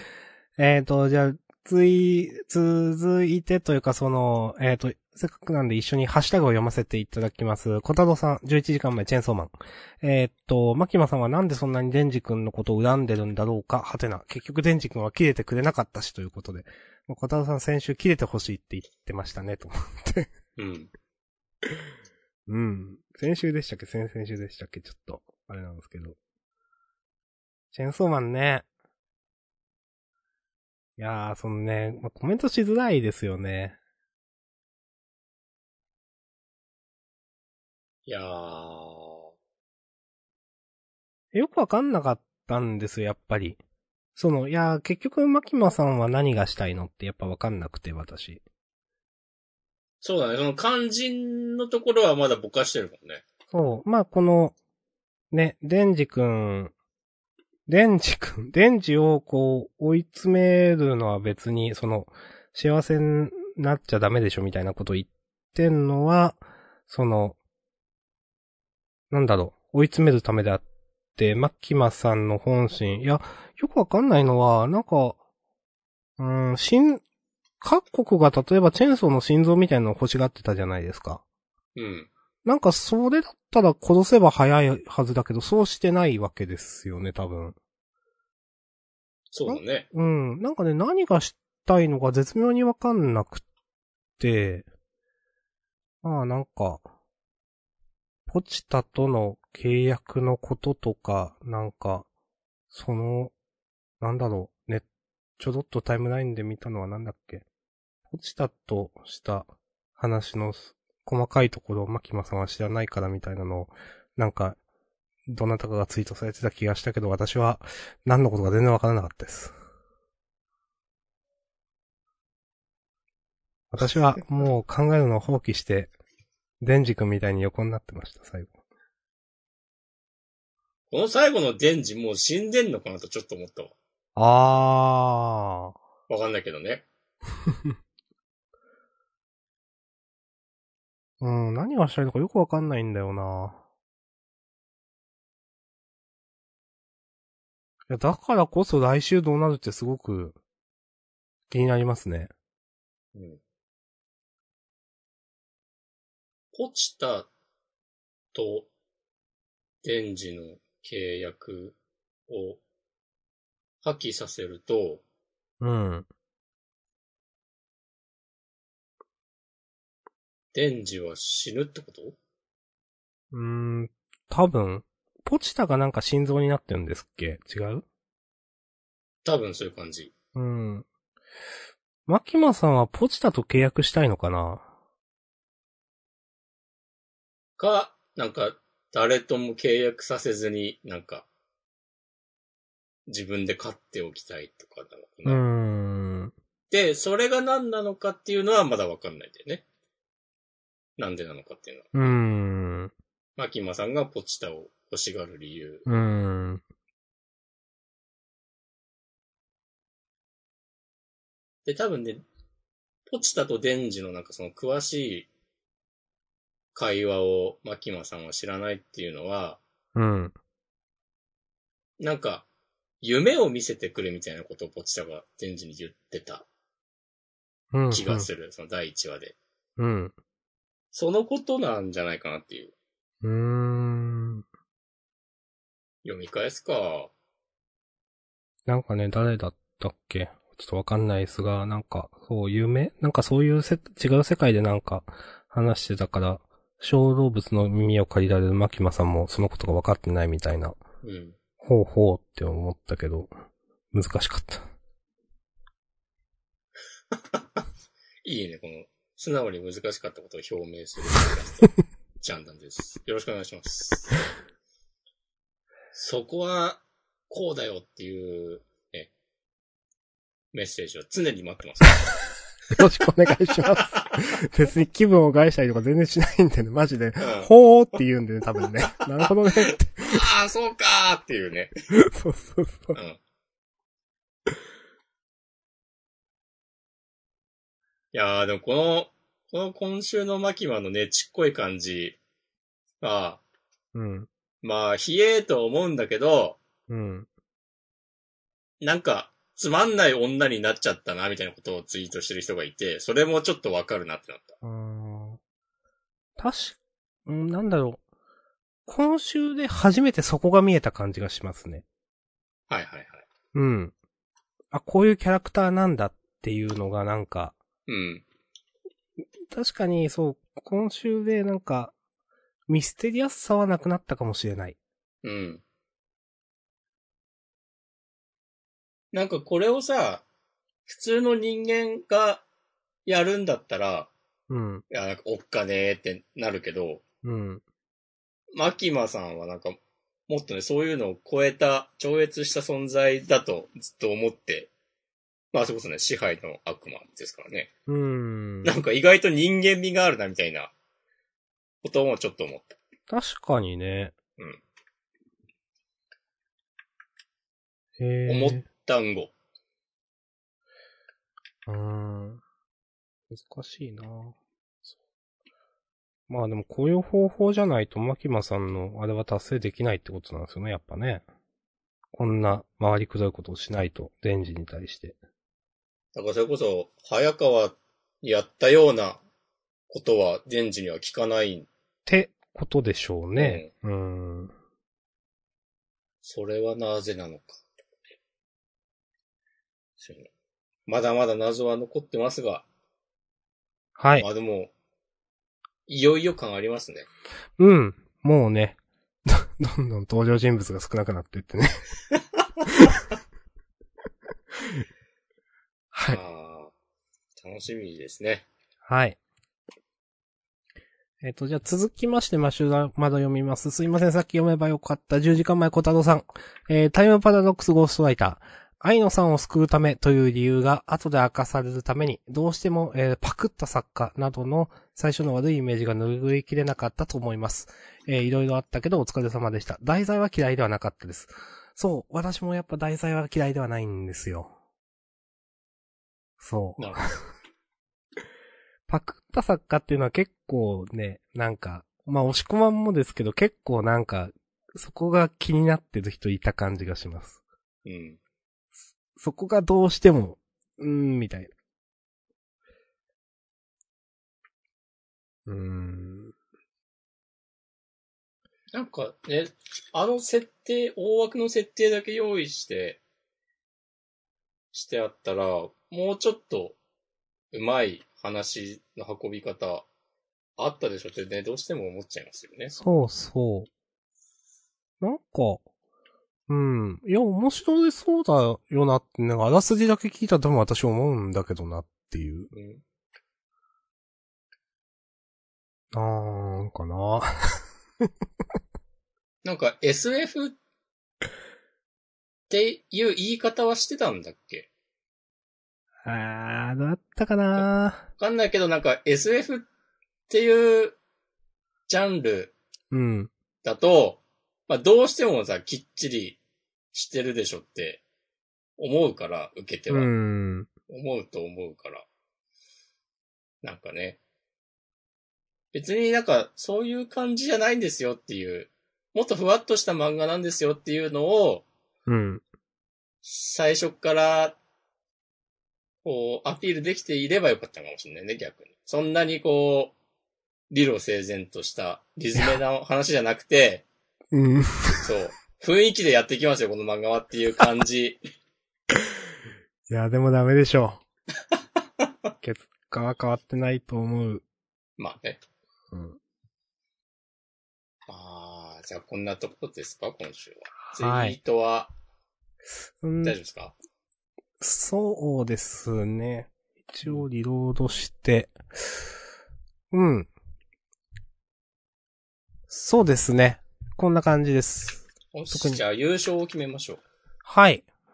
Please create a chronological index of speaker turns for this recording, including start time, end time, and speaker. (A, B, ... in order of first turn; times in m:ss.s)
0:00.6-0:20.3 A
0:20.6-0:20.9 B
0:22.5-0:26.2 A
0:27.7-0:28.6 A
0:31.0-0:33.8 A
0:38.0-0:39.2 B
0:41.3-0:43.6 A
0:44.2-0:48.4 A
0:50.0-0:53.2 B
0:53.5-0:54.5 A
0:55.3-0:56.7 A
0:57.7-1:07.4 A
1:09.1-1:10.6 A
1:11.2-1:15.2 A
1:16.2-1:17.0 A
1:17.6-1:21.2 A
1:21.7-1:22.1 B
1:22.4-1:27.6 A
1:29.3-1:29.9 B
1:29.5-1:33.4 A
1:34.2-1:34.7 A
1:36.0-1:36.9 A
1:38.3-1:42.0 A
1:42.7-1:43.3 A
1:44.0-1:44.8 A
1:45.4-1:47.4 A
1:48.1-1:54.6 A
1:55.3-1:59.5 A
2:03.7-2:05.9 A
2:06.6-2:08.5 A
2:10.9-2:13.7 B
2:14.2-2:15.7 A
2:16.1-2:16.8 B
2:21.2-2:23.6 A
2:27.9-2:30.4 A
2:31.5-2:32.3 A
2:33.1-2:33.4 B
2:36.5-2:37.3 B
2:38.3-2:38.7 B
2:39.8-2:41.8 B
2:42.3-2:42.6 B
2:43.8-2:45.0 B
2:45.6-2:46.1 A
2:50.5-2:52.2 B
2:53.3-2:57.8 A
2:59.2-3:00.1 B
3:00.3-3:00.8 A
3:02.1-3:04.7 A
3:07.6-3:11.2 B
3:13.1-3:15.4 B
3:15.2-3:16.3 A
3:16.7-3:19.6 B
3:21.0-3:21.9 B
3:21.9-3:22.9 A
3:23.4-3:25.8 B
3:25.8-3:26.6 A
3:31.6-3:32.2 B
3:33.1-3:35.3 B
3:36.7-3:39.6 B
3:39.9-3:40.3 A
3:42.0-3:42.4 B
3:43.0-3:46.4 B
3:47.7-3:48.3 A
3:47.9-3:49.3 B
3:49.8-3:50.1 A
3:50.9-3:52.7 B
3:53.2-3:54.4 A
3:56.0-3:57.1 B
3:58.7-4:10.8 A
4:11.0-4:11.4 B
4:11.6-4:13.3 A
4:13.9-4:14.7 A
4:17.1-4:17.6 B
4:18.2-4:24.1 B
4:25.9-4:29.1 B
4:30.5-4:32.1 B
4:32.7-4:40.2 A
4:37.2-4:37.5 B
4:40.0-4:41.7 B
4:41.9-4:43.0 A
4:48.1-4:52.2 B
4:53.0-4:53.4 B
4:53.9-4:54.3 A
4:54.6-4:56.6 B
4:56.9-4:57.3 A
4:58.8-5:04.6 B
5:04.6-5:05.4 A
5:06.4-5:08.0 A
5:08.8-5:11.8 A
5:12.7-5:13.2 B
5:13.5-5:13.9 A
5:14.7-5:17.6 A
5:17.9-5:18.2 B
5:19.5-5:21.9 A
5:22.7-5:24.8 A
5:25.2-5:25.6 B
5:29.1-5:30.2 B
5:30.9-5:32.4 B
5:33.0-5:34.1 B
5:34.5-5:34.8 A
5:34.9-5:37.0 B
5:37.2-5:37.6 A
5:38.5-5:44.7 B
5:45.5-5:47.7 B
5:47.9-5:48.7 A
5:48.6-5:50.7 B
5:51.8-5:52.7 B
5:53.1-5:54.1 A
5:58.0-5:58.6 A
5:58.3-5:59.3 B
6:01.7-6:02.4 A
6:03.3-6:04.4 A
6:06.3-6:11.2 A
6:12.1-6:15.2 A
6:16.1-6:19.2 B
6:19.9-6:21.7 B
6:22.0-6:24.5 A
6:23.4-6:23.7 B
6:26.2-6:27.6 B
6:30.0-6:30.3 B
6:30.9-6:32.6 B
6:34.0-6:34.3 A
6:34.2-6:34.7 B
6:35.9-6:37.1 B
6:37.6-6:41.8 A
6:45.9-6:46.2 A
6:46.1-6:46.7 B
6:47.4-6:48.4 B
6:48.8-6:49.2 A
6:51.2-7:14.5 A
7:16.4-7:17.0 A
7:16.8-7:17.0 B
7:18.9-7:27.4 A
7:27.8-7:28.2 B
7:29.2-7:31.5 A
7:35.5-7:36.3 A
7:38.7-7:43.0 B
7:44.7-7:46.8 B
7:47.5-7:49.8 B
7:50.6-7:52.7 B
7:52.7-7:53.7 A
7:55.0-7:55.6 A
7:56.5-8:02.5 A
8:02.5-8:02.8 B
8:05.9-8:08.1 A
8:09.4-8:10.6 B
8:12.5-8:14.7 B
8:16.0-8:18.1 A
8:18.2-8:19.7 B
8:20.3-8:21.0 B
8:21.9-8:22.5 B
8:22.9-8:23.3 A
8:23.6-8:26.4 B
8:26.9-8:28.0 B
8:28.8-8:30.1 B
8:29.9-8:30.7 A
8:30.9-8:32.0 B
8:33.6-8:34.2 B
8:35.7-8:41.6 B
8:42.1-8:42.4 A
8:43.2-8:44.6 B
8:46.0-8:49.9 B
8:50.7-8:53.8 B
8:54.3-8:55.1 A
8:55.0-8:58.2 B
8:59.9-9:01.0 A
9:02.4-9:04.4 A
9:05.0-9:05.4 B
9:05.9-9:06.2 A
9:08.1-9:11.9 B
9:10.8-9:11.4 A
9:13.0-9:13.4 A
9:13.2-9:13.7 B
9:14.6-9:18.6 A
9:19.9-9:20.3 A
9:22.7-9:25.8 A
9:25.3-9:27.0 B
9:27.4-9:27.8 A